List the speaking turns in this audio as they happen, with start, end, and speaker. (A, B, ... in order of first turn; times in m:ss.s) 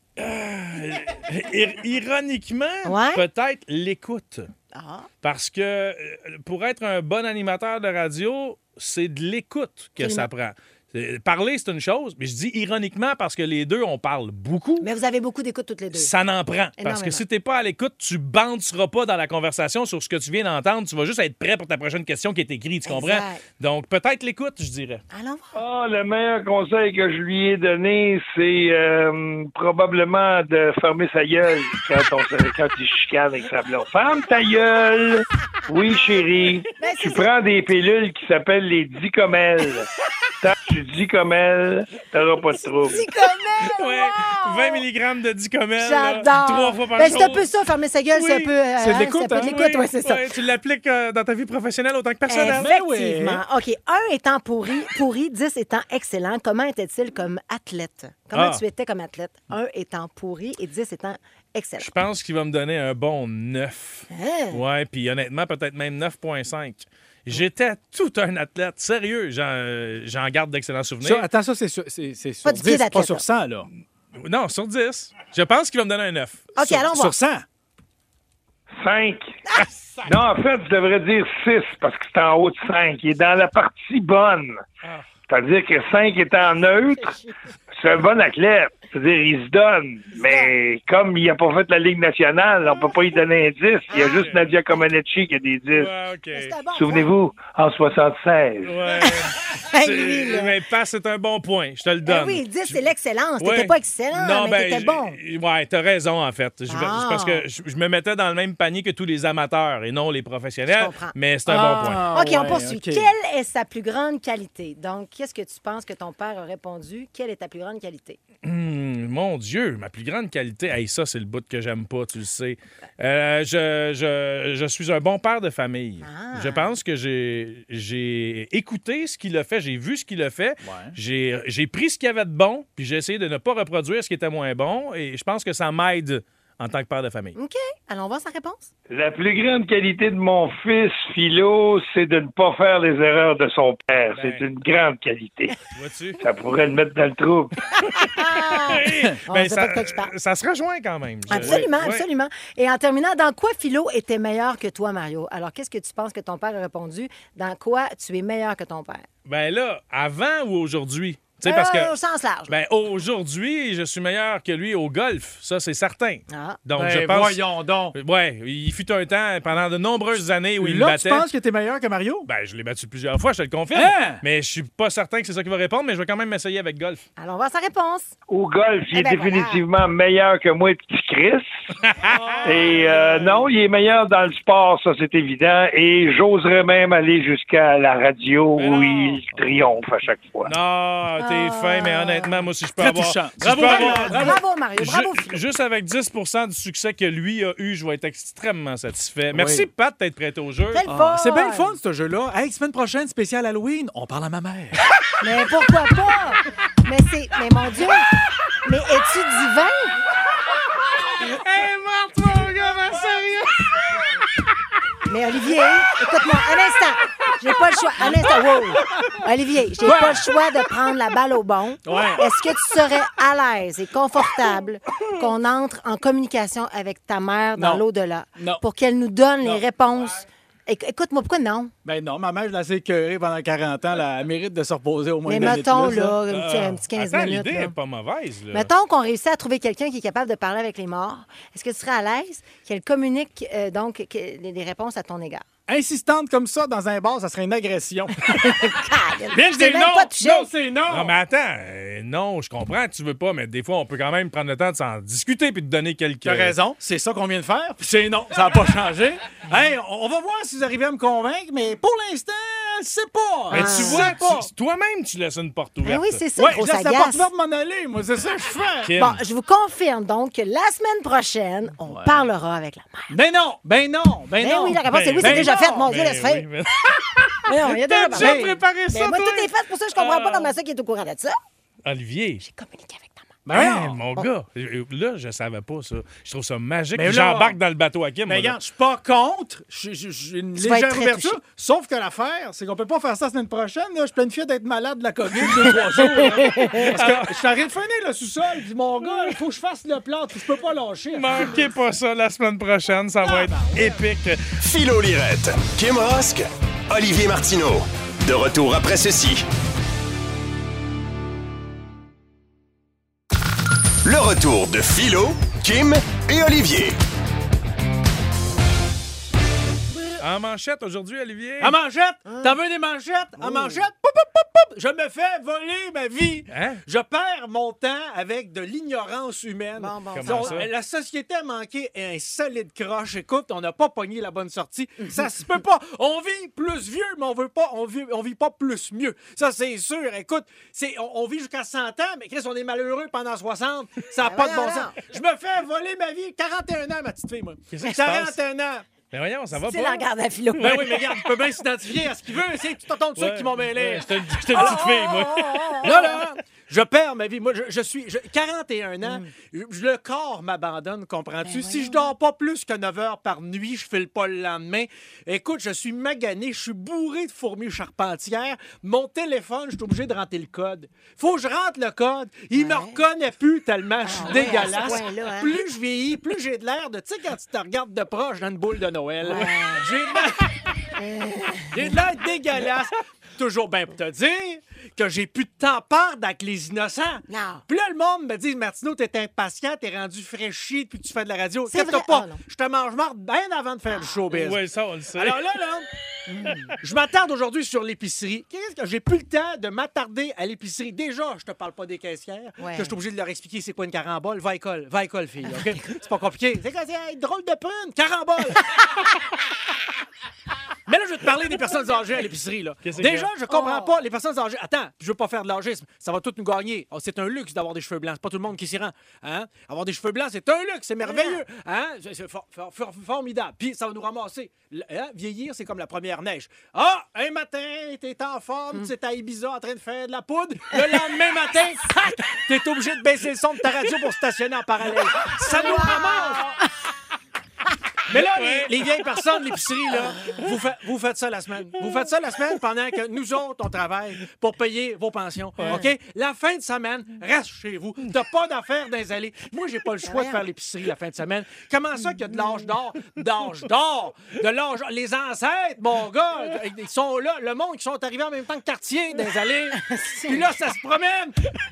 0:00.2-0:04.5 A
0:02.8-0:03.3 B
0:04.7-0:05.1 B
0:05.2-0:14.9 A
0:10.0-0:10.3 B
0:14.8-0:16.1 B
0:15.9-0:25.0 A
0:16.8-0:17.2 B
0:22.8-0:23.4 B
0:25.1-0:25.6 B
0:25.5-0:39.9 C
0:36.8-0:37.3 B
0:40.4-0:43.0 C
0:42.8-0:44.8 B
0:43.6-0:47.5 A
0:45.8-0:50.3 B
0:48.1-0:48.5 A
0:48.8-0:49.6 D
0:49.4-0:52.7 A
0:52.3-1:01.9 B
0:52.4-0:53.4 D
0:58.3-0:58.6 A
1:01.8-1:11.3 A
1:04.1-1:04.6 B
1:11.0-1:13.7 D
1:12.4-1:13.2 B
1:14.2-1:16.5 A
1:16.6-1:17.2 B
1:16.6-1:17.4 D
1:18.8-1:19.4 C
1:19.5-1:19.7 B
1:19.6-1:20.1 A
1:20.1-1:24.6 C
1:25.3-1:27.2 C
1:27.0-1:27.3 B
1:27.8-1:35.9 C
1:30.2-1:30.5 B
1:33.9-1:34.2 B
1:34.0-1:34.4 A
1:35.7-1:36.6 A
1:36.3-1:37.1 B
1:36.8-1:38.9 C
1:38.6-1:42.8 A
1:39.0-1:40.6 B
1:42.0-1:45.2 B
1:43.4-1:52.1 A
1:46.7-1:47.5 B
1:50.7-1:58.2 B
1:51.5-1:53.1 D
1:58.4-2:17.4 A
2:06.0-2:06.7 B
2:10.6-2:11.0 D
2:17.4-2:18.7 B
2:18.9-2:25.6 C
2:24.1-2:24.4 A
2:25.7-2:26.2 A
2:26.2-2:27.6 C
2:27.9-2:32.1 A
2:27.9-2:30.1 B
2:31.3-2:39.1 B
2:31.3-2:31.7 D
2:39.3-2:41.9 A
2:41.4-2:42.5 B
2:42.5-2:51.3 A
2:46.3-2:46.6 B
2:46.8-2:48.0 D
2:50.6-2:52.3 D
2:52.3-2:57.0 A
2:53.7-2:54.2 D
2:57.2-2:58.1 B
2:58.3-3:01.5 C
2:58.9-2:59.6 B
3:01.8-3:02.4 A
3:02.1-3:03.5 D
3:02.4-3:10.5 C
3:08.6-3:09.2 A
3:10.5-3:20.8 A
3:11.2-3:12.5 B
3:12.8-3:14.4 D
3:13.5-3:15.4 B
3:19.3-3:19.7 D
3:20.7-3:21.7 B
3:20.9-3:24.8 D
3:25.2-3:28.1 B
3:28.6-3:29.9 B
3:31.2-3:33.8 A
3:35.1-3:51.7 B
3:39.8-3:40.3 D
3:41.8-3:42.3 D
3:47.6-3:47.8 D
3:48.4-3:48.6 D
3:51.8-3:56.2 D
3:55.2-3:57.8 B
3:56.3-3:58.7 A
3:58.5-4:05.4 B
4:05.7-4:08.7 D
4:08.4-4:10.5 B
4:09.3-4:11.2 D
4:10.9-4:16.6 A
4:16.2-4:24.5 D
4:23.5-4:26.2 A
4:23.5-4:24.2 B
4:25.8-4:27.3 B
4:26.4-4:29.0 D
4:28.8-4:29.2 A
4:29.0-4:33.1 B
4:31.9-4:32.2 D
4:33.1-4:35.9 D
4:34.4-4:36.5 B
4:34.8-4:40.5 A
4:37.5-4:41.4 B
4:38.1-4:38.6 D
4:41.8-4:42.4 A
4:42.4-4:43.4 B
4:43.5-4:44.0 D
4:43.5-4:48.6 A
4:47.0-4:47.6 D
4:48.3-5:01.7 D
4:50.6-4:51.4 B
4:56.3-4:56.8 B
4:56.6-4:57.4 A
4:59.1-4:59.3 A
5:01.1-5:04.6 A
5:03.2-5:04.0 D
5:04.6-5:09.5 E
5:14.0-5:17.0 E
5:20.2-5:21.8 A
5:21.6-5:48.9 D
5:22.3-5:22.6 B
5:23.4-5:23.8 B
5:26.5-5:26.8 A
5:29.8-5:30.6 B
5:30.1-5:30.7 A
5:44.2-5:45.0 B
5:47.7-5:48.4 A
5:49.1-5:50.0 A
5:49.5-5:51.0 B
5:50.6-5:51.3 A
5:50.6-5:54.9 D
5:53.2-5:56.2 A
5:54.5-5:56.2 B
5:55.8-6:20.5 D
5:59.0-5:59.3 B
6:01.4-6:02.1 B
6:12.5-6:13.0 B
6:14.0-6:15.6 B
6:19.2-6:19.9 B
6:21.0-6:21.9 B
6:21.7-6:35.9 D
6:27.3-6:27.6 B
6:31.7-6:32.4 B
6:34.3-6:35.4 A
6:36.3-6:36.7 B
6:36.8-6:48.7 D
6:42.6-6:43.0 B
6:50.9-7:16.5 D
6:52.8-6:53.3 A
6:53.5-6:54.0 B
7:01.0-7:01.4 B
7:15.5-7:16.4 B
7:18.1-7:41.4 D
7:18.2-7:18.8 A
7:25.6-7:25.9 B
7:30.0-7:30.4 B
7:39.8-7:40.4 B